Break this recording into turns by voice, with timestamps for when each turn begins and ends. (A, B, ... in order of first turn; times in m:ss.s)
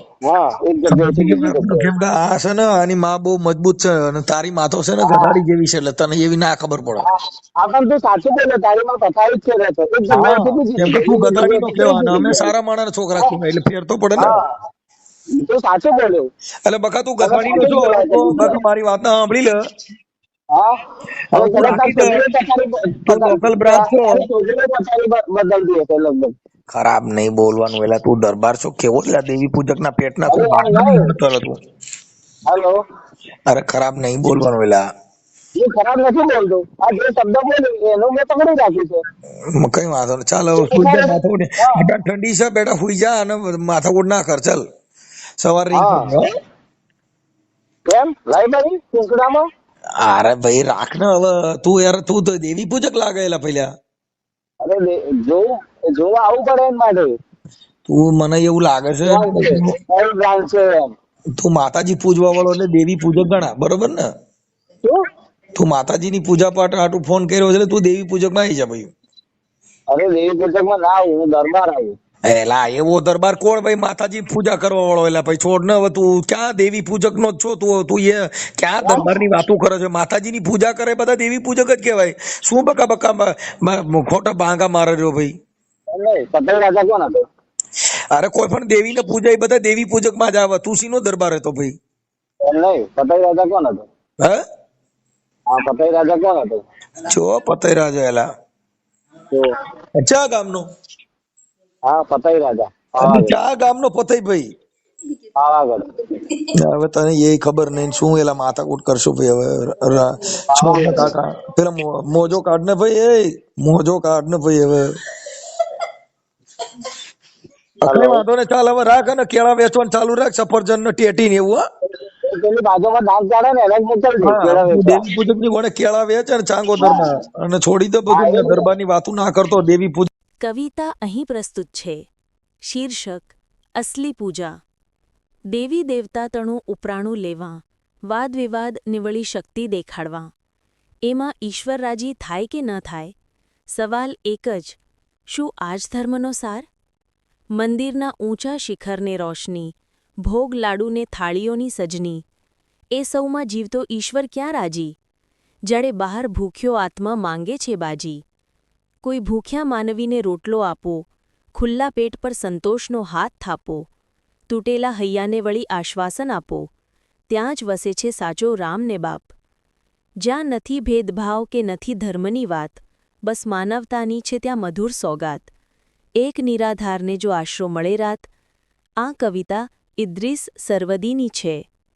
0:00.2-0:01.9 A
0:00.9-0:07.0 B
0:05.0-0:05.4 A
0:07.0-0:12.5 A
0:10.1-0:14.4 B
0:14.2-0:14.5 A
0:15.4-0:16.3 A
0:16.6-0:19.6 B
0:17.2-0:18.6 A
0:21.3-0:22.2 B
0:21.3-0:26.3 A
0:23.0-0:24.3 B
0:26.7-0:31.6 B
0:30.3-0:31.1 A
0:32.4-0:32.8 A
0:33.5-0:34.8 B
0:35.6-0:39.0 A
0:39.6-0:44.6 B
0:40.6-0:41.8 A
0:45.4-0:46.3 B
0:45.7-0:46.1 A
0:47.9-0:49.4 A
0:50.0-0:53.7 B
0:54.6-0:57.1 A
0:57.8-0:59.8 B
0:59.0-1:00.9 A
1:01.4-1:04.0 B
1:05.6-1:08.9 B
1:09.9-1:11.9 A
1:12.3-1:25.3 B
1:18.8-1:19.1 A
1:25.9-1:27.2 A
1:28.1-1:31.7 B
1:32.4-1:33.8 A
1:35.5-1:36.6 A
1:37.0-1:38.3 B
1:39.3-1:39.6 A
1:40.0-1:40.6 B
1:41.8-1:43.4 A
1:43.0-1:44.5 B
1:45.4-1:45.8 A
1:46.5-1:54.9 B
1:50.5-1:51.1 A
1:57.8-2:01.6 B
1:57.8-1:58.2 A
2:02.0-2:05.0 A
2:04.2-2:10.1 B
2:06.8-2:07.0 A
2:08.1-2:08.7 A
2:10.4-2:12.1 C
2:12.6-2:14.6 C
2:15.5-2:20.3 C
2:21.0-2:23.1 C
2:23.7-2:26.7 C
2:27.6-2:32.2 C
2:32.9-2:35.0 C
2:35.6-2:38.2 C
2:39.0-2:43.9 C
2:44.5-2:46.7 C
2:47.3-2:49.3 C
2:50.2-2:55.5 C
2:56.2-2:58.3 C
2:59.0-3:01.7 C